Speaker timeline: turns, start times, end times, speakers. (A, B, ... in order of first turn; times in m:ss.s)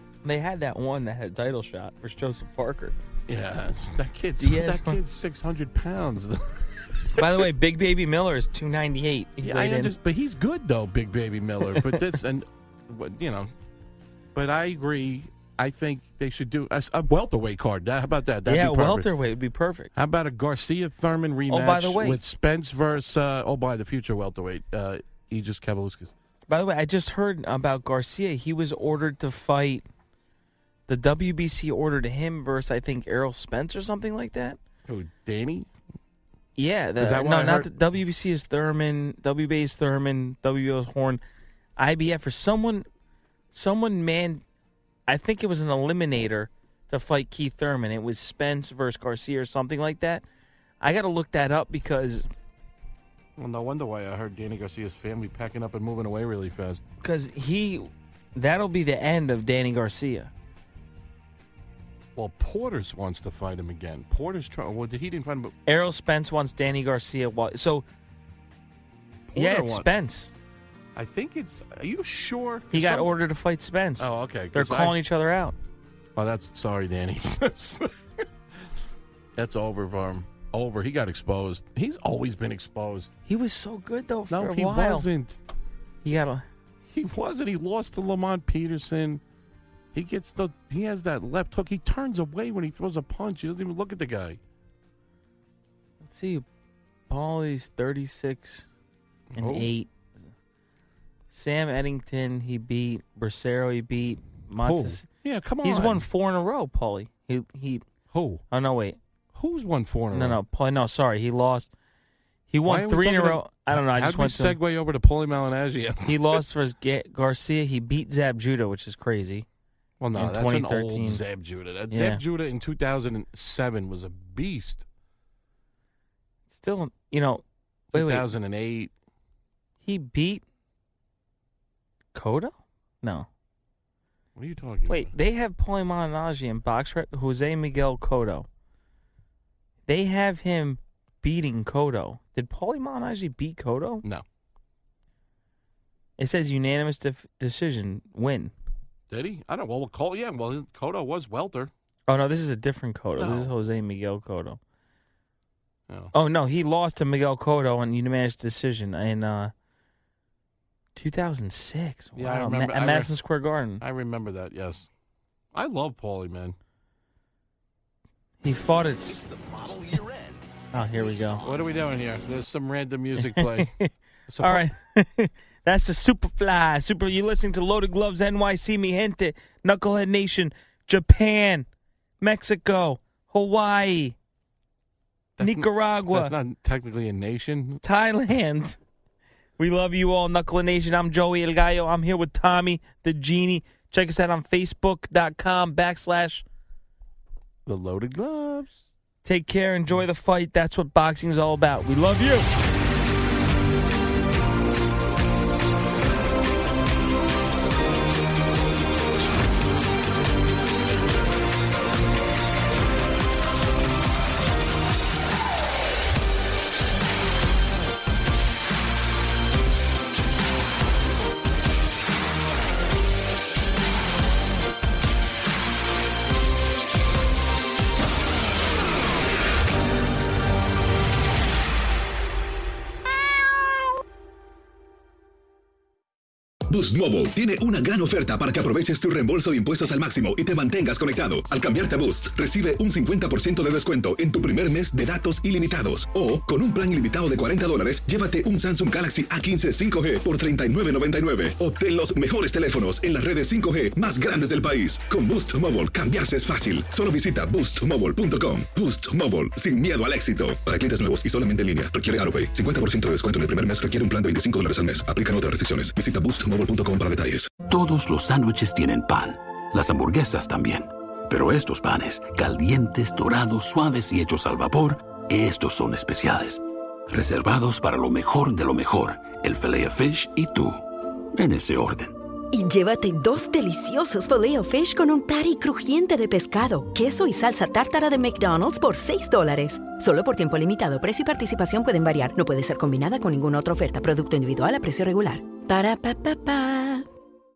0:00.2-0:03.0 A
0:03.3-0:07.4 B
0:04.4-0:05.0 A
0:07.2-0:09.9 A
0:09.4-0:13.5 B
0:11.6-0:12.0 A
0:14.3-0:19.1 B
0:18.5-0:19.9 A
0:20.0-0:26.1 B
0:21.5-0:22.2 A
0:26.5-0:29.9 A
0:30.9-0:34.6 A
0:34.9-0:35.7 B
0:36.6-0:41.2 A
0:37.0-0:37.7 B
0:41.8-0:42.9 A
0:43.5-0:44.4 A
0:45.1-0:50.2 A
0:50.8-0:52.3 A
0:53.4-0:56.8 B
0:57.0-1:00.3 A
1:02.2-1:05.6 B
1:05.7-1:07.8 A
1:09.3-1:09.9 B
1:09.4-1:10.3 A
1:11.0-1:13.1 B
1:12.7-1:15.6 A
1:14.0-1:15.0 B
1:16.2-1:18.3 B
1:19.4-1:23.2 B
1:23.3-1:25.1 A
1:24.3-1:25.4 B
1:26.0-1:26.4 A
1:26.9-1:29.2 B
1:29.9-1:34.4 B
1:36.0-1:36.5 A
1:37.1-1:38.7 A
1:39.3-1:39.7 B
1:39.4-1:39.9 A
1:41.3-1:45.1 A
1:44.6-1:46.1 B
1:45.6-1:47.8 A
1:48.1-1:48.4 B
1:48.5-1:49.0 A
1:49.3-1:50.4 B
1:50.1-1:51.7 A
1:52.5-1:54.6 A
1:52.6-1:56.4 B
1:56.1-1:59.5 A
2:00.0-2:04.9 B
2:00.1-2:01.2 A
2:01.9-2:02.2 A
2:06.5-2:08.3 A
2:07.9-2:08.9 B
2:09.8-2:10.4 A
2:12.2-2:13.3 A
2:14.4-2:15.1 B
2:14.9-2:18.5 A
2:19.9-2:24.0 A
2:26.2-2:28.5 A
2:29.1-2:31.7 B
2:32.1-2:34.6 A
2:33.2-2:33.5 B
2:35.9-2:36.1 B
2:36.1-2:39.5 A
2:41.0-2:43.8 A
2:42.2-2:43.1 B
2:43.8-2:44.9 B
2:45.5-2:46.6 B
2:48.4-2:49.2 A
2:49.3-2:50.4 B
2:50.7-2:51.4 A
2:51.4-2:53.8 B
2:53.2-3:01.7 A
2:54.3-2:54.7 B
3:02.2-3:04.2 A
3:05.4-3:07.8 B
3:05.4-3:06.4 A
3:07.8-3:08.8 A
3:09.6-3:16.4 A
3:17.7-3:18.8 B
3:19.2-3:22.5 A
3:56.7-4:27.5 C
4:27.7-4:42.2 D
4:42.5-4:57.0 E